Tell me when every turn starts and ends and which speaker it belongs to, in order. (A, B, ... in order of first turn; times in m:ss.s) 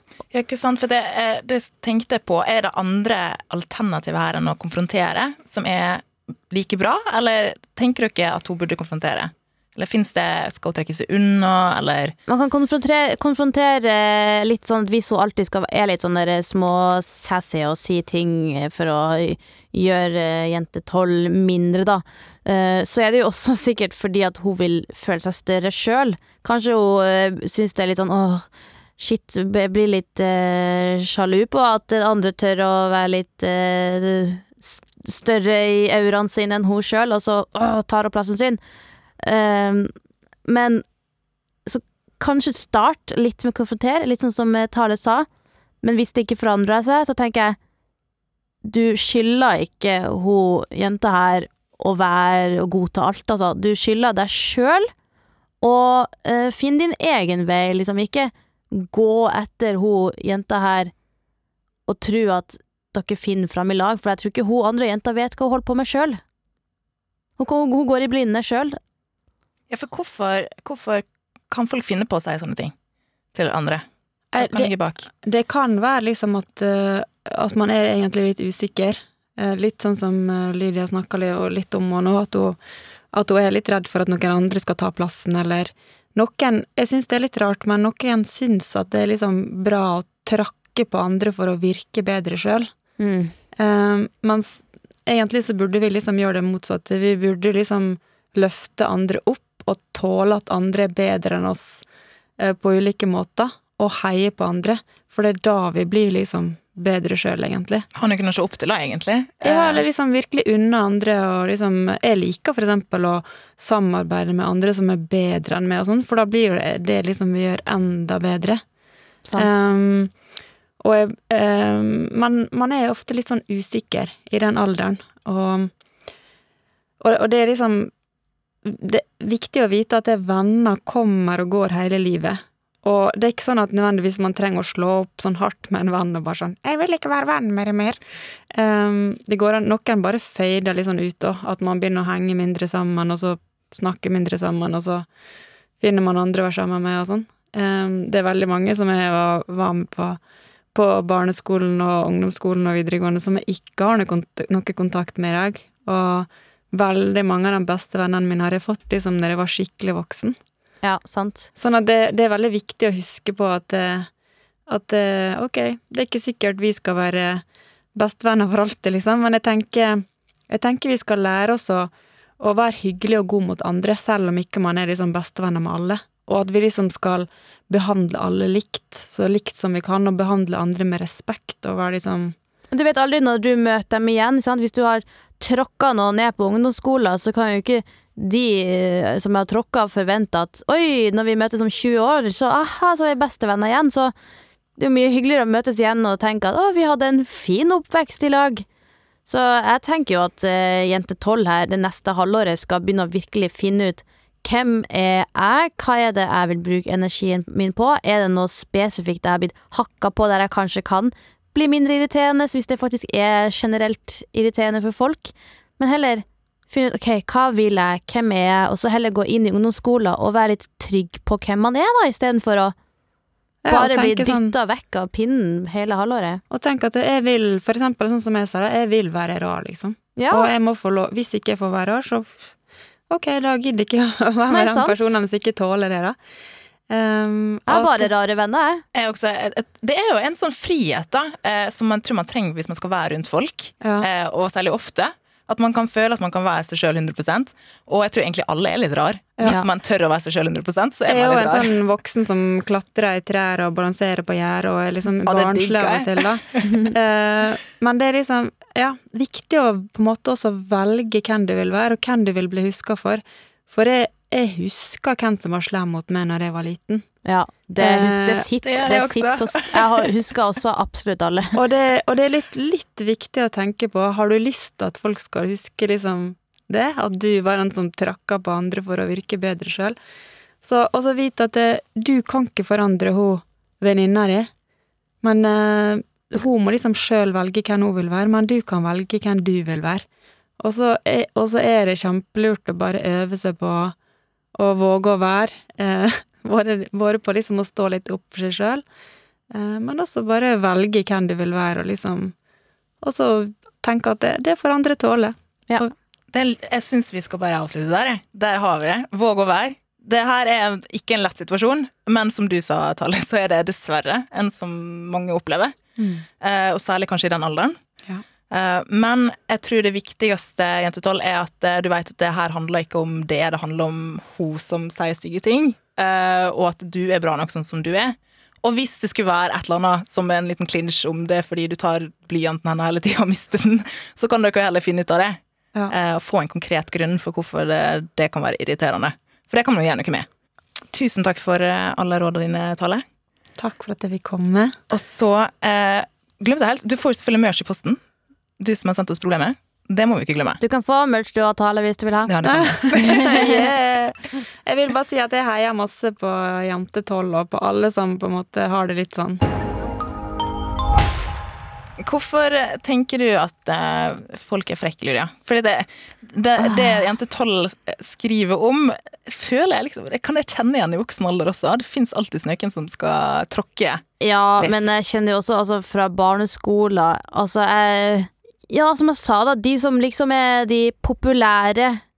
0:00.3-0:12.1 A
0:12.3-0:28.5 B
0:29.0-0:38.6 B
0:39.2-0:39.9 B
0:40.4-0:40.8 B
0:41.6-0:45.3 B
0:45.8-0:47.6 B
0:48.6-0:54.9 B
0:55.6-1:00.9 B
1:01.9-1:06.2 B
1:07.4-1:08.8 B
1:09.7-1:12.7 A
1:13.3-1:13.8 A
1:14.3-1:22.6 C
1:14.4-1:15.1 A
1:23.1-1:32.7 C
1:33.0-1:33.3 B
1:33.6-1:41.8 C
1:42.4-1:47.8 C
1:47.9-1:49.8 A
1:49.4-1:58.6 C
1:59.2-1:59.5 B
1:59.4-2:00.1 C
2:00.8-2:05.7 C
2:07.0-2:07.9 C
2:08.6-2:25.1 C
2:25.8-2:30.2 C
2:30.7-2:40.4 C
2:40.8-2:41.5 B
2:41.6-2:44.1 C
2:44.7-3:02.3 C
3:02.7-3:14.1 B
3:14.8-3:18.6 B
3:19.2-3:42.7 B
3:43.6-3:44.5 C
3:43.7-3:46.4 B
3:46.5-3:52.5 C
3:50.2-3:50.5 B
3:53.1-3:56.2 C
3:54.5-3:55.1 B
3:56.9-3:58.1 C
3:57.7-3:58.8 B
3:58.9-4:11.8 A
4:03.8-4:04.1 C
4:11.1-4:27.1 C
4:15.2-4:16.7 A
4:27.2-4:31.6 B
4:27.8-4:28.4 C
4:28.6-4:30.1 A
4:31.5-4:40.0 C
4:40.6-4:44.5 C
4:45.2-4:50.0 C
4:50.6-4:54.0 C
4:54.5-4:58.8 C
4:59.5-5:02.3 C
5:03.0-5:05.4 C
5:06.3-5:15.8 A
5:16.0-5:16.2 C
5:16.4-5:17.8 A
5:18.5-5:35.4 A
5:35.9-5:40.3 A
5:40.9-5:43.0 A
5:43.6-5:44.8 C
5:44.9-5:48.0 A
5:48.6-5:50.6 A
5:50.6-5:52.3 B
5:52.3-5:53.6 A
5:52.4-5:59.4 C
5:52.9-5:53.6 B
6:02.0-6:14.0 A
6:06.7-6:07.0 B
6:14.2-6:22.0 B
6:14.6-6:14.9 A